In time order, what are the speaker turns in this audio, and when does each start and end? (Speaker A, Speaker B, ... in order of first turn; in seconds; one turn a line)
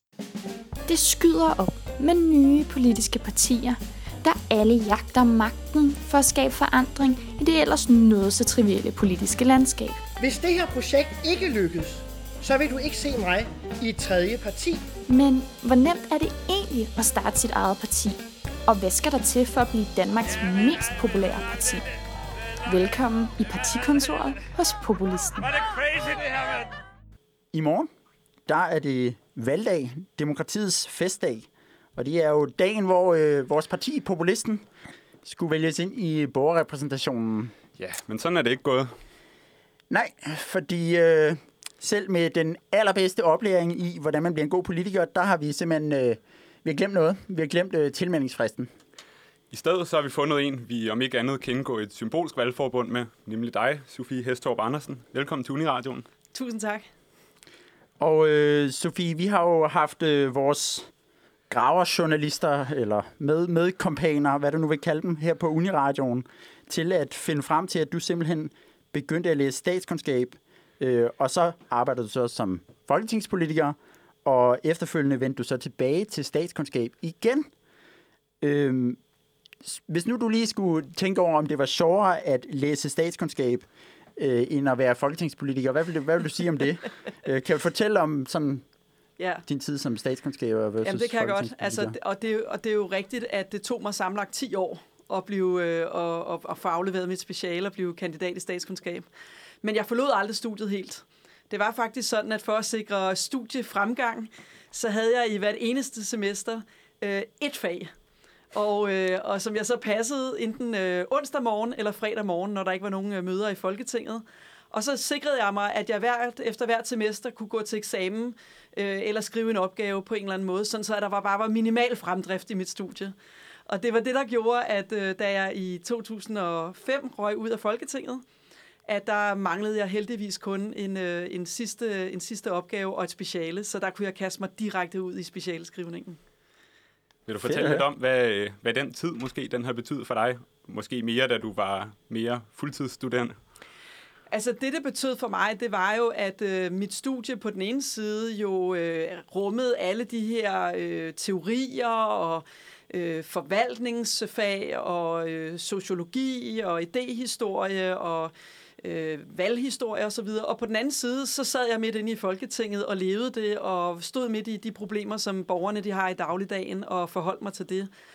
Speaker A: 0.9-10.0
Speaker B: 10.3-11.8
Speaker B: 12.5-14.7
Speaker A: 15.1-21.8
Speaker A: 22.6-25.5
Speaker C: 27.5-27.9
Speaker C: 28.5-34.6
Speaker C: 35.2-37.5
Speaker D: 37.8-38.9
Speaker C: 39.9-48.7
Speaker D: 49.5-56.0
Speaker E: 56.3-56.9
Speaker C: 58.0-60.9
Speaker C: 61.5-77.5
Speaker C: 78.4-79.0
Speaker C: 79.6-83.6
Speaker C: 84.2-88.6
Speaker E: 89.2-89.4
Speaker C: 89.5-92.0
Speaker E: 90.8-99.1
Speaker E: 99.6-107.9
Speaker E: 108.5-123.1
Speaker E: 123.7-128.2
Speaker E: 128.9-136.2
Speaker D: 137.3-143.3
Speaker C: 137.4-137.8
Speaker E: 144.3-167.9